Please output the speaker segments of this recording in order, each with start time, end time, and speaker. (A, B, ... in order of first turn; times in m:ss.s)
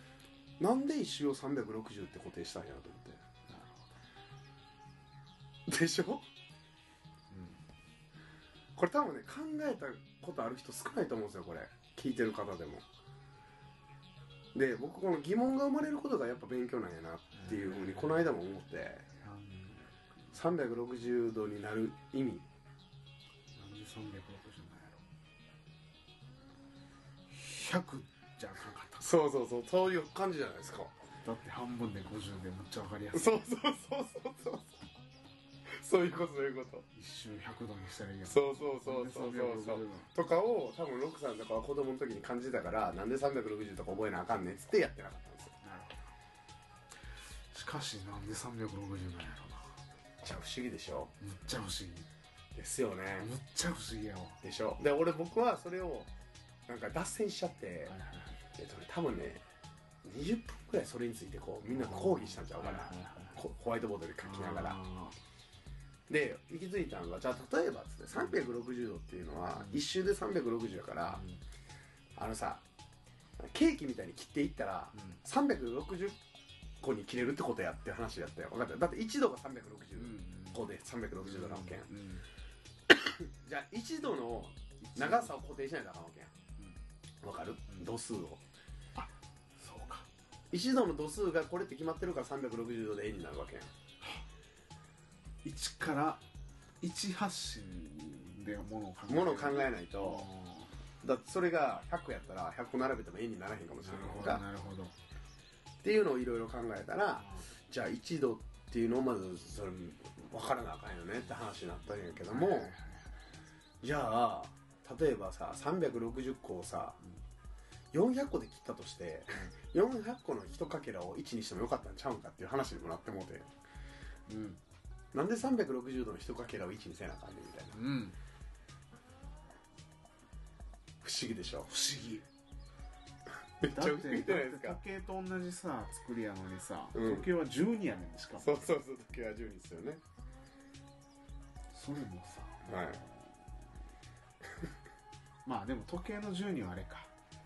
0:00.6-0:03.2 A
0:03.5-0:03.9 B
0:05.7-0:06.2 A
0:07.3-0:07.6 B
0:08.8-0:12.8 A
0:14.5-0:19.1 A
0:17.3-0:18.2 B
0:19.2-0:20.0 B
0:20.3-0:22.5 A
0:23.6-0:25.0 B
0:27.3-0:29.1 B
0:29.0-0:30.9 A
0:31.2-0:33.5 B
0:33.1-0:34.8 A
0:35.7-0:36.8 A
0:36.9-0:40.1 B
0:38.2-0:45.6 A
0:45.6-0:46.0 B
0:47.5-0:49.8 B
0:50.2-0:51.1 A
0:51.2-0:52.1 B
0:52.6-0:53.3 A
0:53.2-0:54.4 B
0:54.4-0:56.1 A
0:56.7-0:57.9 A
0:57.9-0:58.4 B
0:58.6-0:59.4 A
1:00.0-1:04.8 A
1:01.7-1:03.4 B
1:04.2-1:05.2 B
1:06.1-1:11.2 A
1:09.6-1:09.8 B
1:11.1-1:11.4 B
1:12.2-1:12.6 A
1:13.4-1:16.2 A
1:15.0-1:15.2 B
1:16.8-1:21.9 A
1:20.0-1:20.7 B
1:21.2-1:22.2 B
1:22.9-1:26.3 A
1:24.8-1:25.4 B
1:27.2-1:28.4 A
1:29.0-1:30.1 B
1:30.5-1:33.7 A
1:35.4-1:36.2 B
1:36.8-1:40.7 B
1:39.1-1:40.3 A
1:41.0-1:44.4 A
1:43.8-1:45.0 B
1:45.8-1:52.7 A
1:47.2-1:47.5 B
1:52.3-1:53.2 B
1:53.8-1:57.0 A
1:57.9-2:03.5 A
2:04.3-2:04.6 B
2:05.1-2:07.8 A
2:07.7-2:08.2 B
2:11.0-2:11.7 A
2:11.7-2:12.3 B
2:13.6-2:14.8 A
2:13.6-2:18.6 B
2:16.9-2:17.3 A
2:18.4-2:20.0 A
2:21.7-2:23.5 B
2:22.7-2:23.0 A
2:25.4-2:27.1 B